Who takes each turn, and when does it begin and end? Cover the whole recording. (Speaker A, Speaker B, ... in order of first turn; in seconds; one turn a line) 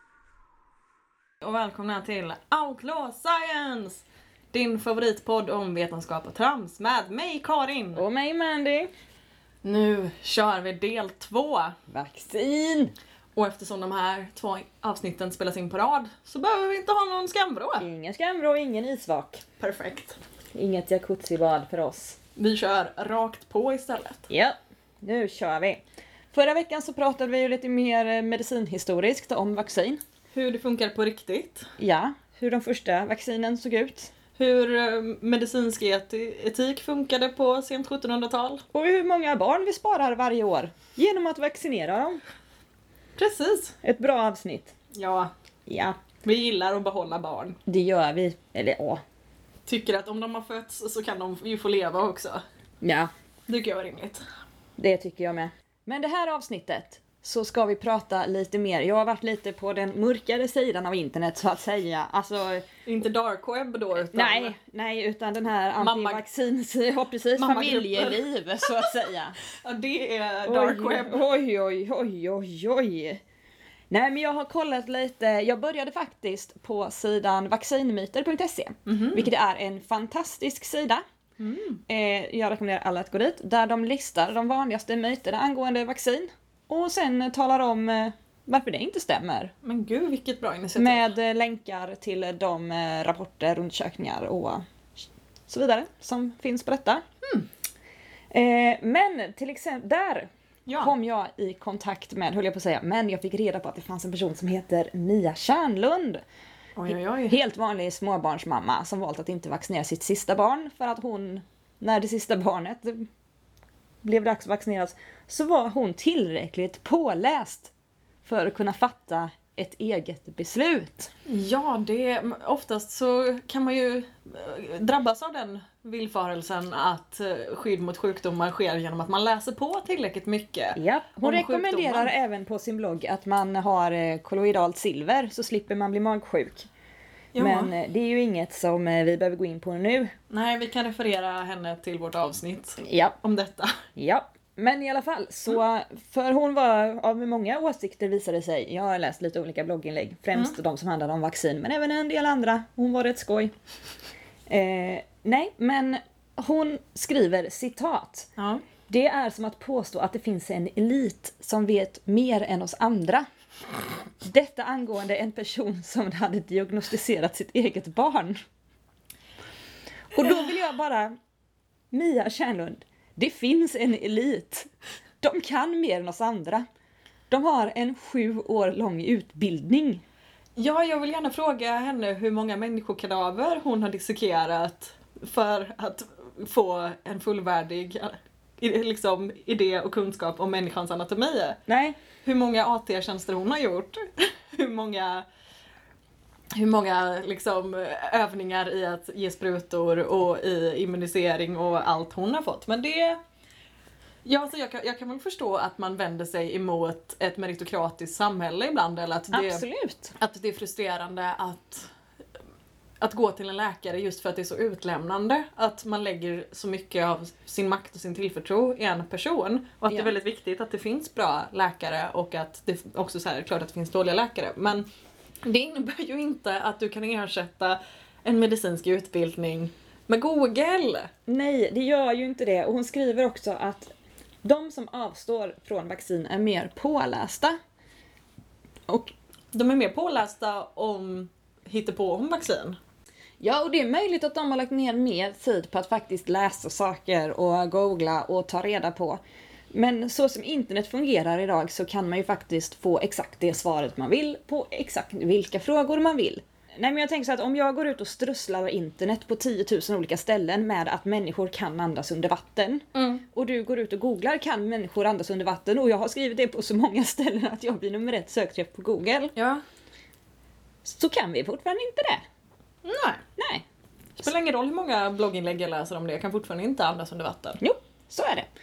Speaker A: 1.4-8.0
Speaker B: 8.0-8.9
Speaker A: 9.6-11.8
Speaker B: 11.9-12.9
Speaker A: 13.3-17.9
Speaker B: 17.8-19.4
Speaker A: 19.6-20.2
Speaker B: 20.5-22.2
Speaker A: 22.4-24.3
Speaker B: 24.3-30.0
Speaker A: 30.3-31.7
Speaker B: 31.8-34.1
Speaker A: 34.4-38.6
Speaker B: 38.7-42.2
Speaker A: 43.2-43.8
Speaker B: 43.8-44.7
Speaker A: 44.9-45.3
Speaker B: 45.7-46.0
Speaker A: 46.2-47.6
Speaker B: 47.7-49.0
Speaker A: 49.7-52.4
Speaker B: 52.8-53.1
Speaker A: 53.5-54.2
Speaker B: 54.8-62.6
Speaker A: 62.9-64.5
Speaker B: 64.1-69.3
Speaker A: 65.8-66.2
Speaker A: 67.4-69.0
Speaker A: 69.5-71.2
Speaker B: 70.5-73.2
Speaker B: 73.9-81.0
Speaker A: 78.9-79.3
Speaker A: 81.4-81.8
Speaker B: 81.9-89.5
Speaker A: 89.6-91.1
Speaker B: 90.8-94.7
Speaker B: 95.5-97.0
Speaker B: 98.3-100.3
Speaker A: 100.7-100.9
Speaker B: 100.8-106.2
Speaker A: 106.8-107.4
Speaker B: 107.3-113.1
Speaker B: 114.0-117.7
Speaker B: 118.2-121.1
Speaker A: 121.3-132.1
Speaker B: 130.8-136.7
Speaker A: 137.3-137.7
Speaker B: 137.4-140.1
Speaker A: 140.3-143.8
Speaker B: 142.8-143.2
Speaker B: 144.0-153.5
Speaker B: 154.5-158.3
Speaker A: 158.4-158.6
Speaker B: 158.9-163.3
Speaker B: 164.2-168.4
Speaker B: 170.1-171.2
Speaker B: 171.9-174.7
Speaker B: 175.2-176.7
Speaker B: 177.3-180.0
Speaker A: 180.6-191.6
Speaker B: 191.7-192.0
Speaker A: 192.2-195.3
Speaker A: 196.5-203.2
Speaker A: 204.2-209.6
Speaker B: 209.3-210.2
Speaker A: 210.2-211.9
Speaker A: 213.0-224.9
Speaker A: 225.4-231.1
Speaker B: 231.3-233.9
Speaker B: 234.4-237.6
Speaker B: 238.9-239.1
Speaker A: 239.5-242.8
Speaker B: 243.4-249.2
Speaker B: 249.7-269.3
Speaker A: 262.9-263.2
Speaker A: 269.4-269.6
Speaker B: 270.8-272.2
Speaker A: 272.9-273.2
Speaker B: 273.4-273.6
Speaker A: 274.2-277.6
Speaker B: 277.6-278.5